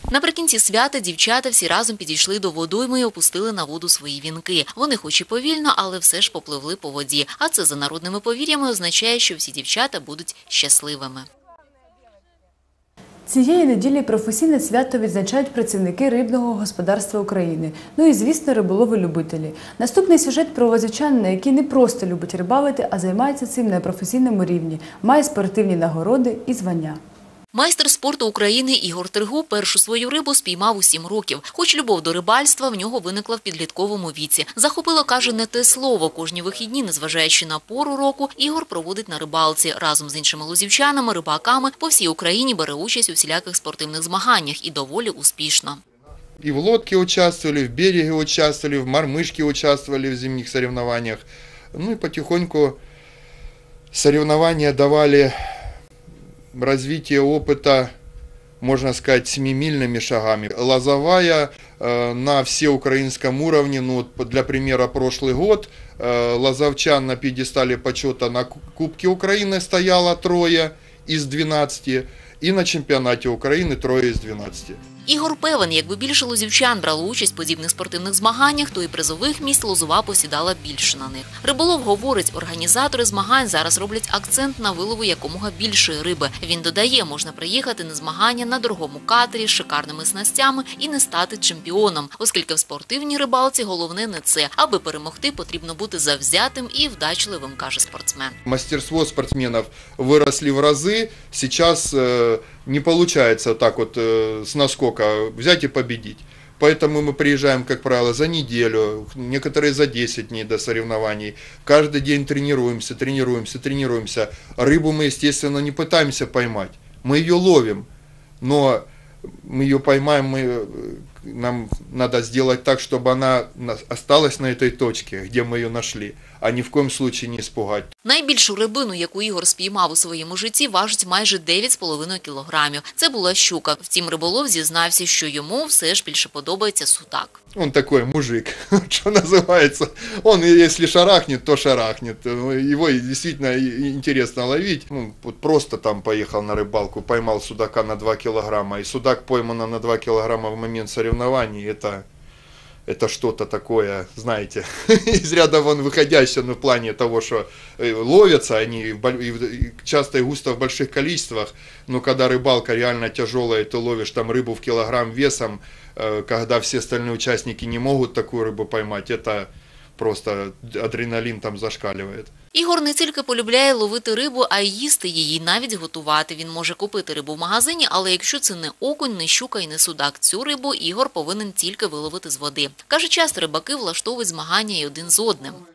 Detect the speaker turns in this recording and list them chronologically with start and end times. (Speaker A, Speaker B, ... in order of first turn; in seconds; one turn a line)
Speaker A: 0.1-11.3
Speaker B: 13.3-27.0
Speaker A: 27.5-45.8
Speaker C: 46.4-52.8
Speaker C: 53.9-55.4
Speaker C: 56.5-57.9
Speaker C: 58.6-74.8
Speaker A: 75.1-98.4
Speaker C: 98.5-117.9
Speaker C: 118.4-118.8
Speaker C: 119.4-127.9
Speaker A: 128.1-137.4
Speaker C: 137.6-152.0
Speaker C: 152.9-172.3
Speaker A: 172.5-185.6